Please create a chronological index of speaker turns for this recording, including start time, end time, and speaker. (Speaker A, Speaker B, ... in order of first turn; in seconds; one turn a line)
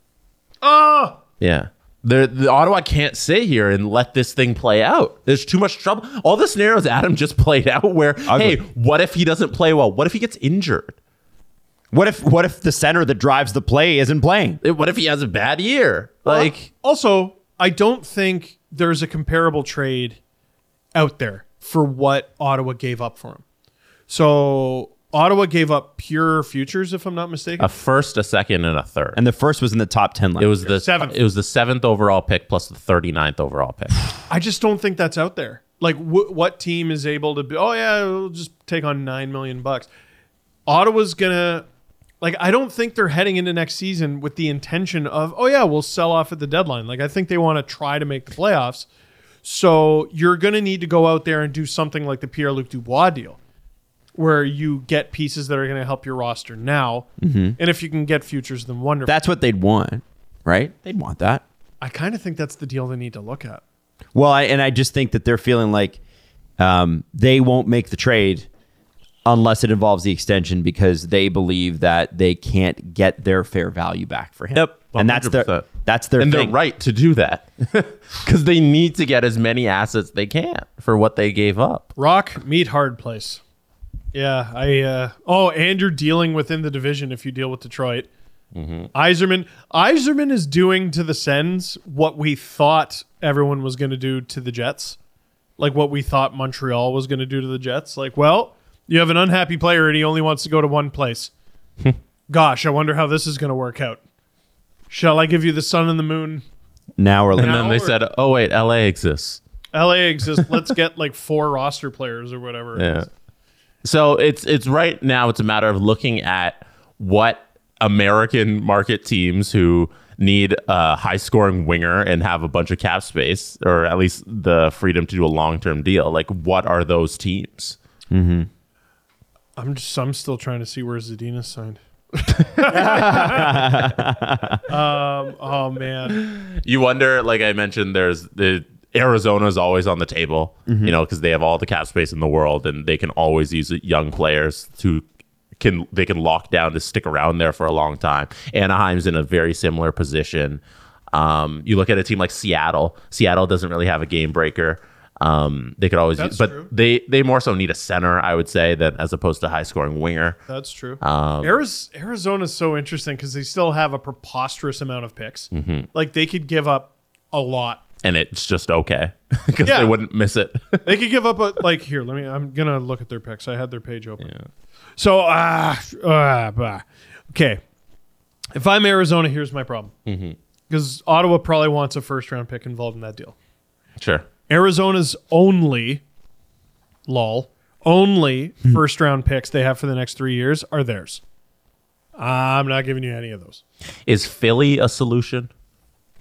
Speaker A: 0.6-1.2
Speaker B: 1.4-11.0
Speaker C: 8.2-8.6
Speaker C: 11.9-14.6
Speaker B: 14.6-16.7
Speaker A: 16.2-20.2
Speaker A: 20.9-23.4
Speaker A: 24.1-27.7
Speaker B: 27.6-29.2
Speaker C: 29.1-30.7
Speaker B: 30.4-34.0
Speaker A: 30.7-31.1
Speaker A: 34.3-39.9
Speaker A: 40.6-41.6
Speaker A: 42.2-48.9
Speaker A: 49.4-53.4
Speaker A: 54.1-59.1
Speaker C: 57.2-57.6
Speaker C: 59.0-61.4
Speaker A: 61.8-63.6
Speaker C: 64.1-66.0
Speaker C: 66.6-68.5
Speaker C: 69.2-76.5
Speaker B: 74.5-81.9
Speaker A: 82.0-83.4
Speaker A: 84.1-88.1
Speaker B: 88.5-88.9
Speaker A: 88.9-95.0
Speaker A: 95.6-101.3
Speaker A: 102.3-104.0
Speaker A: 104.9-106.4
Speaker C: 107.0-107.6
Speaker B: 107.3-109.4
Speaker A: 107.4-107.9
Speaker A: 109.7-113.1
Speaker B: 112.8-113.1
Speaker B: 113.8-127.8
Speaker C: 128.1-128.5
Speaker A: 129.6-133.8
Speaker C: 132.7-134.6
Speaker A: 134.7-136.2
Speaker B: 136.1-145.0
Speaker C: 140.7-140.9
Speaker B: 145.6-150.6
Speaker B: 151.1-160.4
Speaker A: 156.2-156.7
Speaker A: 160.5-167.8
Speaker B: 161.0-161.6
Speaker B: 165.5-165.9
Speaker B: 168.0-170.8
Speaker A: 169.6-169.9
Speaker A: 170.8-174.3
Speaker A: 175.0-177.6
Speaker A: 178.5-179.9
Speaker B: 180.1-180.4
Speaker A: 180.7-183.3
Speaker B: 184.0-184.2
Speaker A: 184.5-186.0
Speaker A: 187.1-191.2
Speaker A: 192.2-193.6
Speaker B: 194.1-195.5